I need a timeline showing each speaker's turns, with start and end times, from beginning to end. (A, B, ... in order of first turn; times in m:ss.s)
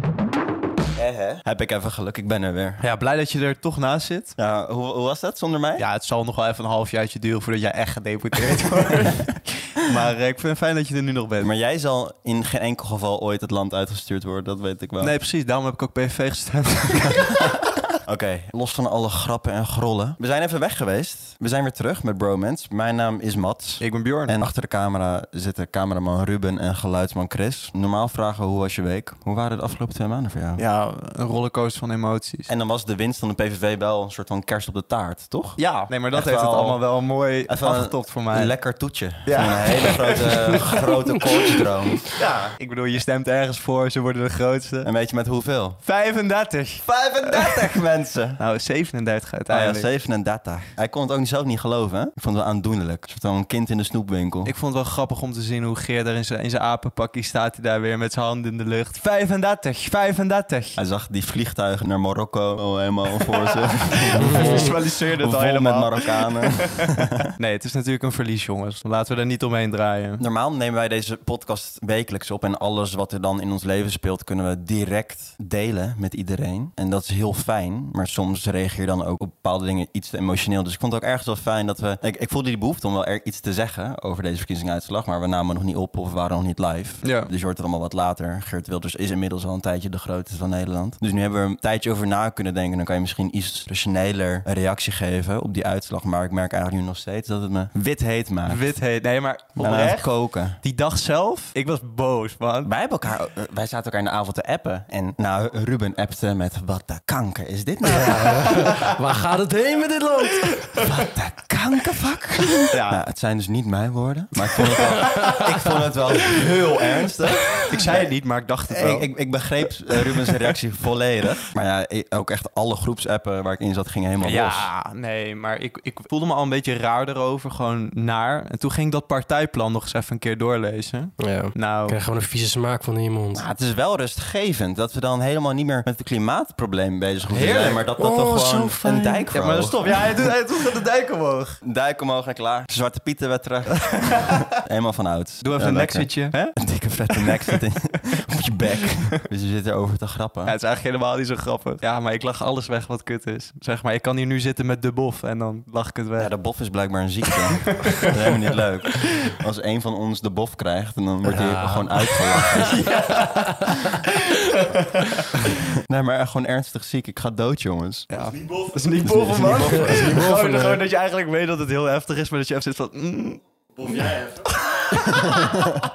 0:01.0-0:02.8 A
0:02.8-0:04.4 B
0:04.4-0:05.8 A
0:05.8-0:11.5 B
0:11.4-0:15.1 A
0:15.0-0:17.3 B
0:17.4-0:30.6 A
0:23.8-0:24.5 B
0:30.6-0:32.5 B
0:32.5-0:36.8 A
0:35.6-0:38.5 B
0:37.4-0:42.1 A
0:39.2-0:40.9 B
0:41.5-0:44.9 B
0:44.8-0:45.8 A
0:45.8-0:47.7 B
0:46.8-0:48.4 A
0:48.4-0:49.9 B
0:49.5-0:54.5 A
0:54.4-1:00.8 B
1:00.8-1:07.3 A
1:03.9-1:10.2 B
1:04.2-1:04.7 C
1:10.2-1:38.7 A
1:27.0-1:27.3 B
1:38.5-1:40.1 B
1:39.6-1:40.6 A
1:40.6-1:42.7 B
1:42.6-1:48.7 A
1:47.9-1:50.8 C
1:48.5-1:48.9 B
1:50.8-1:58.0 A
1:52.7-1:53.0 B
1:54.6-1:55.2 B
1:55.0-1:55.6 C
1:57.6-1:59.1 B
1:58.7-2:04.7 A
2:04.2-2:12.0 B
2:11.2-2:13.4 C
2:13.3-2:20.3 A
2:17.3-2:17.9 B
2:18.0-2:19.2 C
2:19.3-2:21.6 B
2:21.6-2:30.5 A
2:25.4-2:26.6 B
2:27.1-2:27.6 B
2:30.4-2:36.3 B
2:36.2-2:42.9 A
2:37.6-2:38.1 B
2:39.0-2:39.3 B
2:41.3-2:43.7 C
2:42.6-2:45.5 B
2:45.4-2:48.1 A
2:48.1-2:54.4 B
2:49.0-2:50.2 A
2:49.5-2:50.8 C
2:55.0-2:55.8 A